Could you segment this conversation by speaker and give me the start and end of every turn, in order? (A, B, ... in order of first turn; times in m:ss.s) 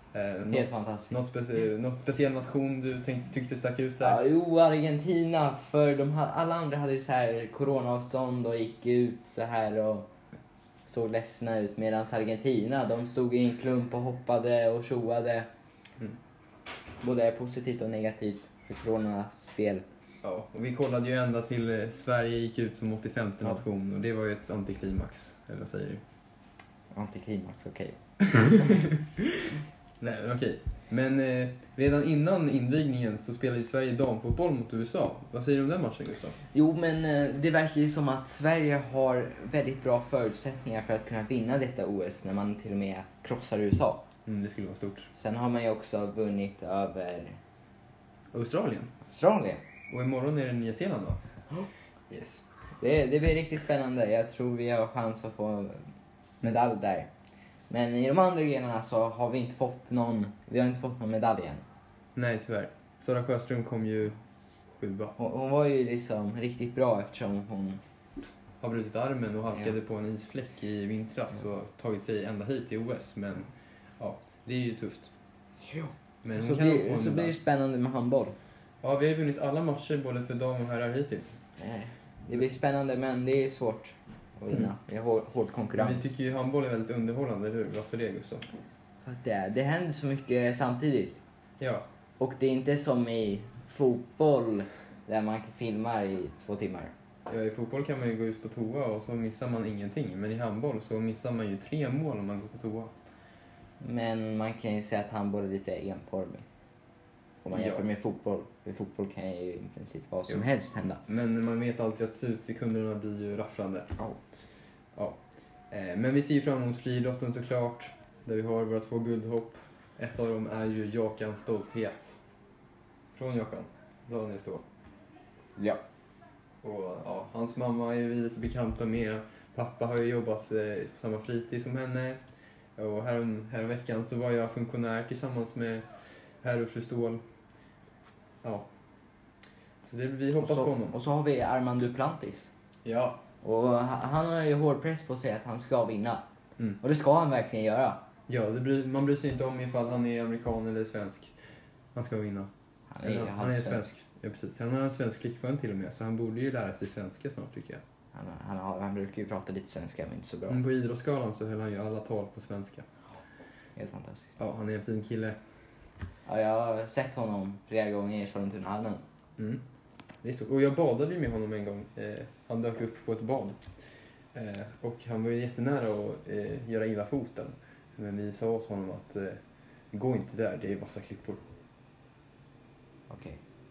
0:00.1-0:04.2 A
0:00.5-0:01.2 B
0:04.0-0:10.1 B
0:10.8-0:15.5 B
0:17.0-0:19.8 B
0:20.2-0:26.0 A
0:26.9-0:28.0 B
0:30.0-0:36.4 A
0:36.5-0:44.1 B
0:44.2-0:45.1 A
0:45.1-0:47.4 B
0:48.3-0:48.9 A
0:49.1-0:49.6 B
0:49.9-0:51.2 A
0:52.1-0:52.4 A
0:52.8-0:55.8 B
0:56.4-0:57.1 B
0:57.7-1:01.6 B
1:02.1-1:04.2 A
1:04.8-1:05.1 A
1:05.2-1:07.8 B
1:08.6-1:15.1 A
1:15.7-1:18.4 B
1:16.2-1:17.3 A
1:18.8-1:21.4 A
1:21.6-1:26.1 B
1:25.8-1:28.5 A
1:29.0-1:31.2 B
1:31.6-1:31.9 A
1:32.2-1:36.9 B
1:37.3-1:42.9 A
1:43.8-1:46.4 B
1:47.4-1:51.0 B
1:51.1-1:53.9 A
1:55.7-2:02.2 A
2:03.1-2:04.6 A
2:06.6-2:12.2 A
2:12.8-2:15.8 A
2:16.4-2:17.2 A
2:18.4-2:18.7 A
2:19.8-2:20.9 A
2:20.4-2:22.5 B
2:22.8-2:23.2 A
2:23.4-2:26.2 B
2:26.8-2:28.0 B
2:28.3-2:31.3 A
2:31.9-2:32.5 A
2:32.9-2:33.9 B
2:33.0-2:37.8 A
2:38.1-2:40.6 B
2:40.5-2:42.8 A
2:43.8-2:44.3 B
2:44.4-2:45.4 A
2:46.2-2:49.0 B
2:49.4-2:49.6 A
2:50.2-2:53.6 A
2:54.3-3:01.4 A
3:03.1-3:03.4 B